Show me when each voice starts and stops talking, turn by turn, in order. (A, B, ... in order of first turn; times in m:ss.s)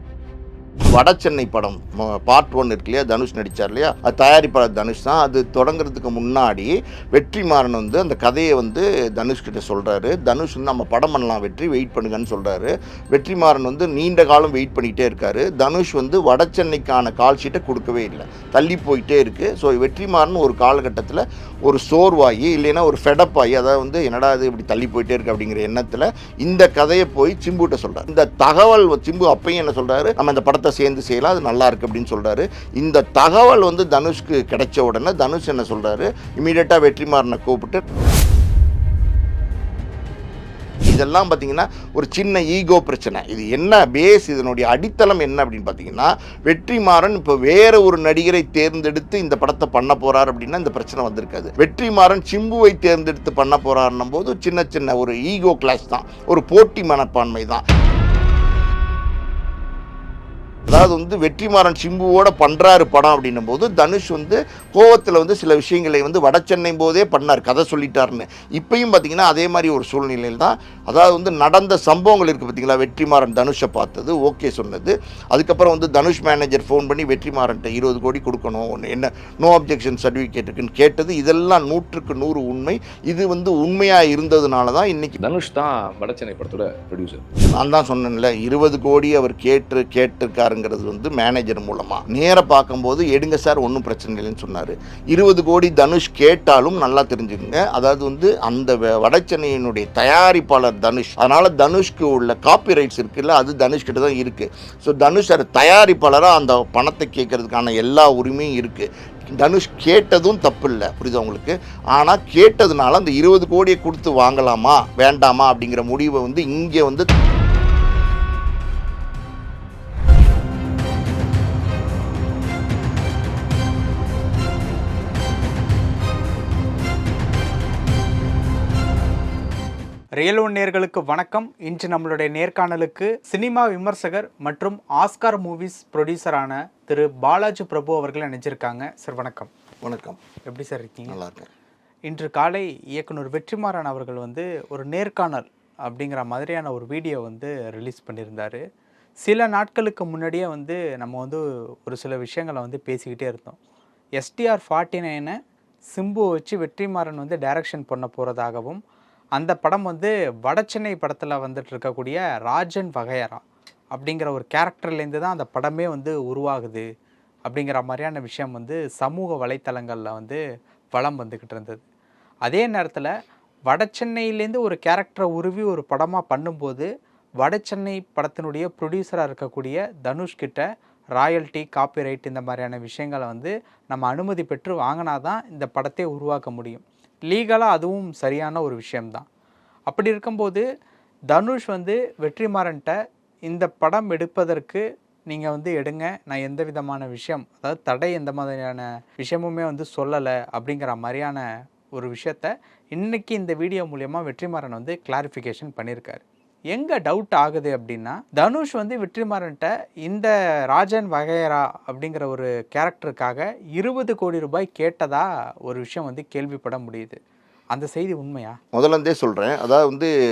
0:00.8-0:37.8 A
0:40.8-0:57.6 A
1:00.7-1:25.2 A
1:25.2-1:27.2 B
1:27.5-1:57.0 A
2:10.2-2:19.5 C
2:19.8-2:20.2 A
2:20.5-2:21.2 C
2:21.1-2:21.5 A
2:22.1-2:28.6 C
2:29.2-2:33.6 C
2:34.2-2:35.4 C
2:35.9-2:38.8 C
2:39.4-2:43.4 C
2:43.9-2:46.8 C
2:47.5-2:50.4 C
2:50.9-2:51.8 C
2:52.4-2:53.1 C
2:53.7-2:56.9 C
2:57.4-3:00.6 C
3:01.2-3:09.2 C
3:09.9-3:10.6 C
3:11.3-3:12.9 C
3:13.5-3:21.4 C
3:22.0-3:37.2 C
3:37.7-3:38.6 C
3:38.7-3:40.1 A